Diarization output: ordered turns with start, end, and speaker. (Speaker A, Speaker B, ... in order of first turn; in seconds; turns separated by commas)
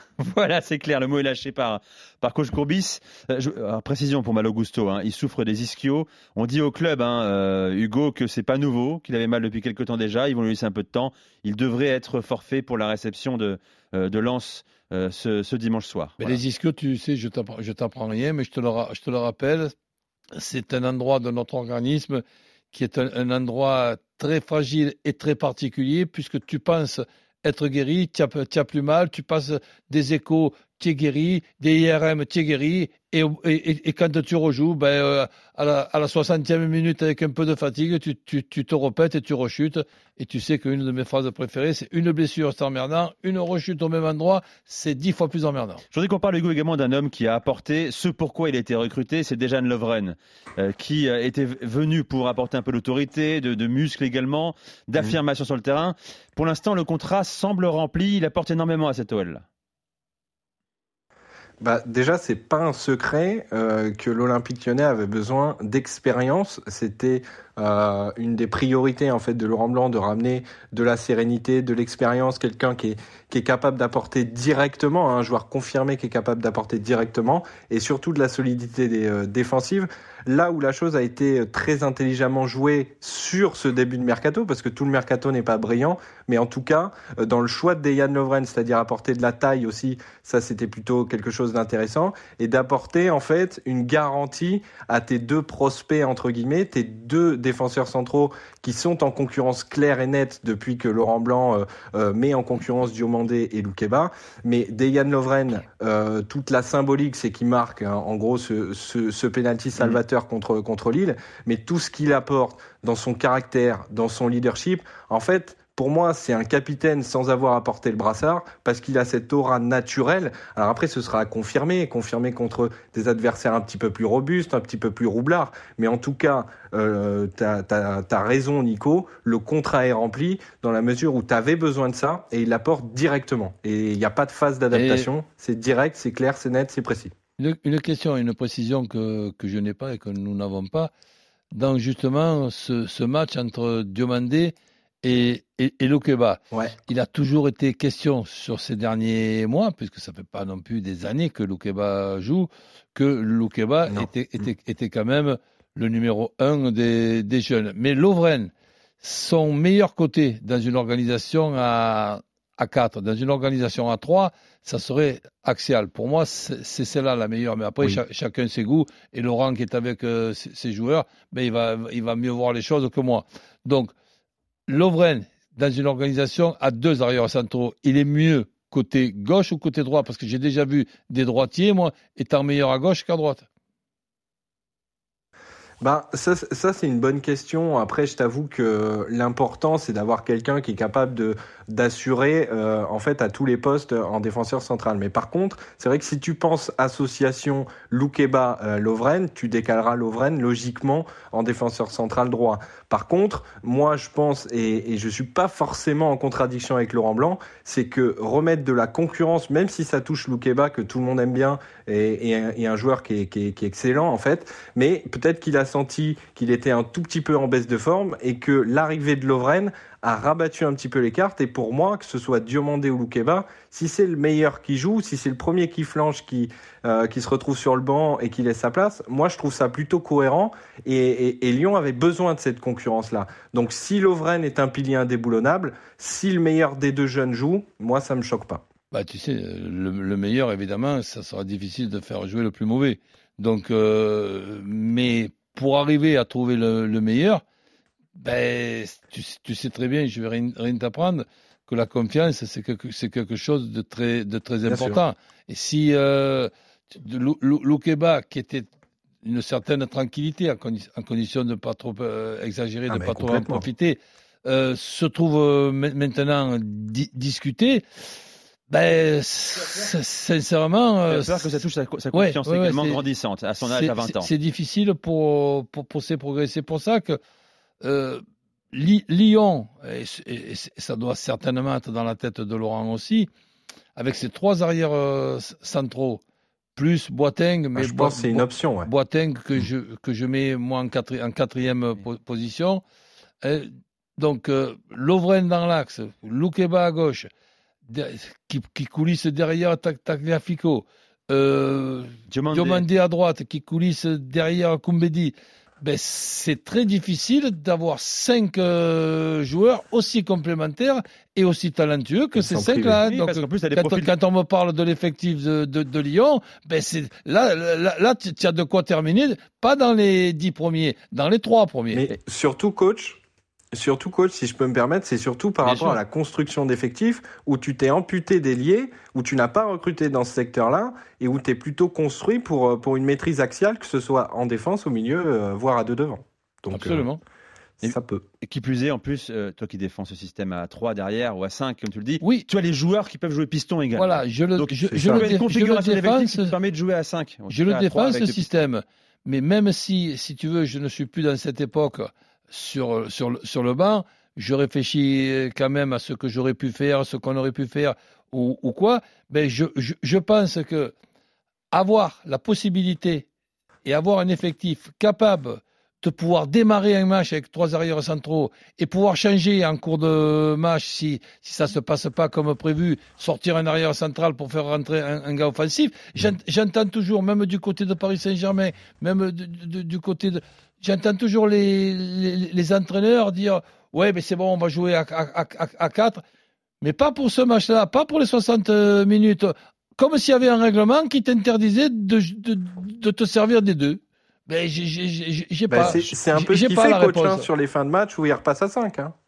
Speaker A: 0.2-16.4, Speaker B: 16.2-19.7, Speaker B: 20.3-45.8, Speaker A: 45.9-59.4, Speaker C: 61.6-137.1, Speaker B: 134.7-135.1, Speaker B: 137.4-140.9, Speaker B: 141.5-173.9, Speaker B: 174.7-183.4, Speaker C: 185.8-238.6, Speaker B: 238.9-247.4, Speaker B: 248.2-258.7, Speaker C: 254.7-255.0, Speaker B: 259.2-267.8, Speaker C: 262.9-263.6, Speaker B: 268.7-271.6, Speaker A: 271.1-274.3, Speaker B: 272.1-273.0, Speaker B: 273.6-277.2, Speaker B: 277.8-283.3, Speaker B: 283.9-286.2, Speaker B: 286.8-292.8, Speaker C: 287.7-288.9, Speaker B: 293.4-297.3, Speaker B: 297.9-322.1, Speaker A: 302.3-302.8, Speaker C: 312.4-313.0, Speaker A: 313.1-314.1, Speaker C: 321.9-323.2, Speaker C: 323.7-337.1, Speaker A: 325.6-326.0, Speaker B: 336.7-337.2, Speaker C: 337.8-338.2, Speaker A: 337.8-348.5, Speaker B: 344.0-346.5, Speaker C: 344.9-345.3, Speaker B: 347.5-360.9, Speaker B: 361.7-363.3, Speaker B: 363.8-386.2, Speaker B: 386.8-397.5, Speaker C: 395.7-399.1